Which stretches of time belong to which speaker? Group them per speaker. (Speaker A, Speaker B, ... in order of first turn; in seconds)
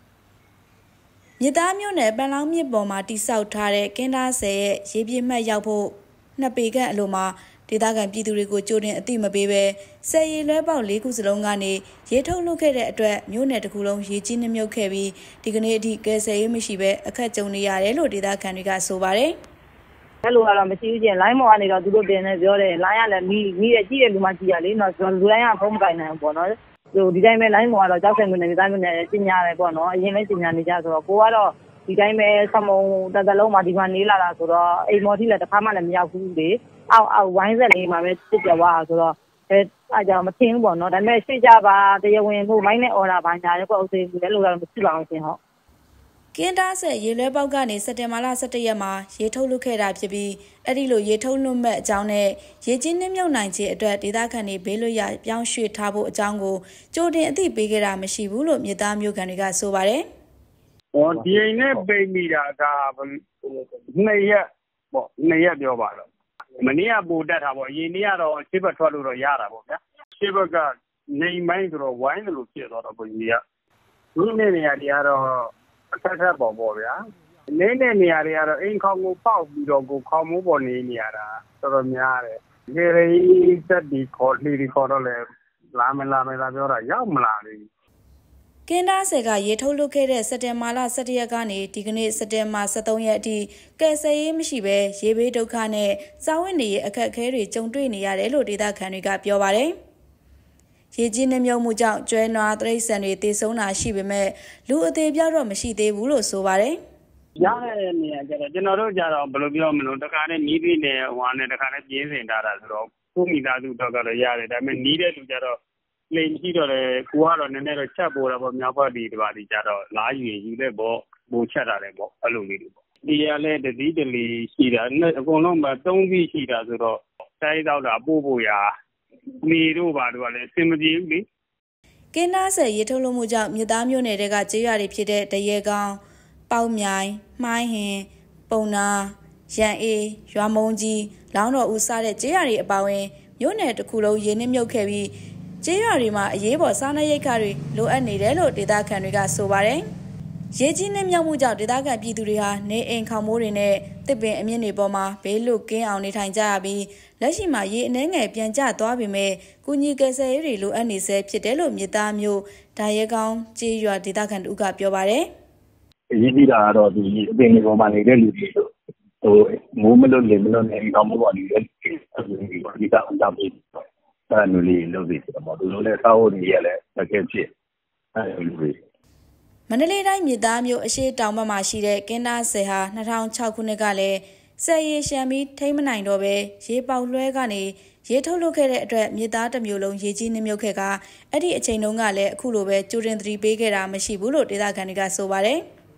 Speaker A: 1.4-19.4, 46.3-60.0, 88.7-99.7, 100.9-106.8, 132.1-149.9, 150.5-165.3, 179.7-195.6
Speaker B: 20.2-45.4
Speaker C: 61.0-64.4, 64.9-66.0, 66.6-73.4, 74.2-76.9, 77.5-85.2, 85.8-87.7, 107.4-115.5, 116.1-128.7, 129.4-131.2
Speaker D: 166.1-168.7, 169.2-177.5, 178.2-178.8